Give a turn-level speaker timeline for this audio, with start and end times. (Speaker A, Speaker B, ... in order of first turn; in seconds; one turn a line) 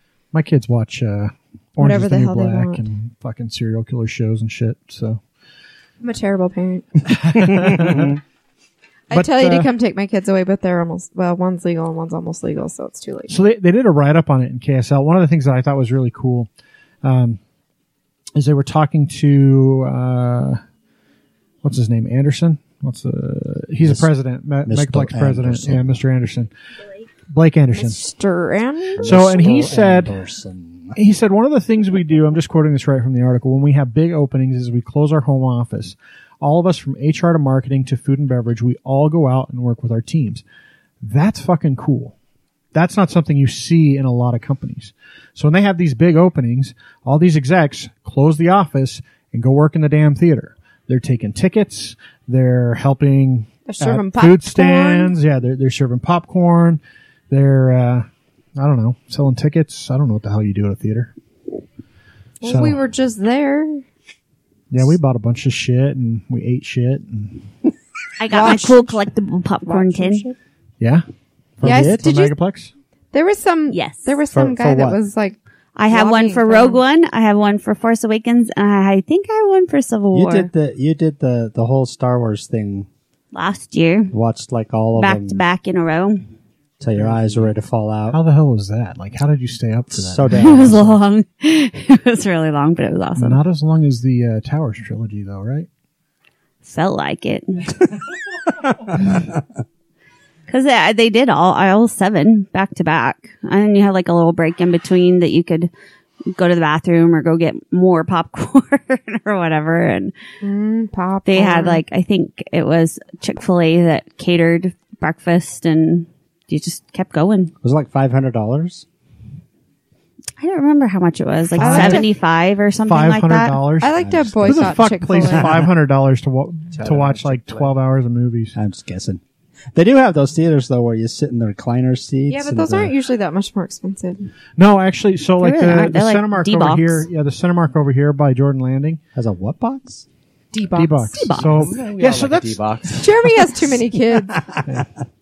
Speaker A: 0.3-5.2
Speaker B: 1.8-2.8
Speaker B: 6.0-7.1
Speaker A: 7.1-8.2
Speaker C: 7.5-8.2
Speaker B: 9.1-13.4
Speaker A: 9.1-9.7
Speaker A: 13.3-16.5
Speaker A: 17.0-17.4
Speaker A: 18.4-20.6
Speaker A: 21.6-26.5
Speaker C: 23.8-24.1
Speaker C: 24.6-25.9
Speaker A: 27.3-28.0
Speaker B: 27.8-29.6
Speaker C: 29.0-31.0
Speaker A: 29.0-30.2
Speaker A: 30.9-40.4
Speaker A: 41.0-42.1
Speaker A: 42.7-61.1
Speaker B: 53.7-55.1
Speaker B: 62.4-63.8
Speaker A: 62.4-62.8
Speaker A: 64.7-67.5
Speaker D: 68.2-70.2
Speaker B: 68.3-69.0
Speaker B: 69.7-70.4
Speaker C: 71.6-72.1
Speaker B: 71.6-72.4
Speaker A: 71.7-72.7
Speaker B: 73.1-76.8
Speaker D: 73.7-74.2
Speaker C: 74.3-75.0
Speaker D: 75.8-80.5
Speaker C: 80.1-82.9
Speaker D: 83.3-84.1
Speaker C: 84.1-85.4
Speaker D: 85.0-86.2
Speaker C: 86.8-88.2
Speaker A: 87.0-87.5
Speaker A: 88.1-90.8
Speaker C: 89.9-91.0
Speaker D: 90.3-93.4
Speaker A: 93.2-95.7
Speaker D: 96.6-97.8
Speaker D: 100.5-105.7
Speaker D: 106.3-110.1
Speaker B: 110.4-111.8
Speaker D: 111.3-117.5
Speaker C: 117.6-118.8
Speaker D: 120.4-123.6
Speaker A: 121.6-122.1
Speaker B: 121.6-122.1
Speaker A: 122.8-123.9
Speaker B: 123.8-125.7
Speaker C: 123.8-125.5
Speaker A: 124.4-128.6
Speaker E: 126.7-127.7
Speaker C: 128.6-129.2
Speaker C: 129.7-132.9
Speaker B: 132.3-134.3
Speaker A: 134.6-139.0
Speaker D: 135.4-137.1
Speaker C: 139.2-140.1
Speaker B: 140.5-141.3
Speaker A: 140.8-142.6
Speaker D: 141.2-141.6
Speaker E: 141.4-143.2
Speaker B: 142.9-144.4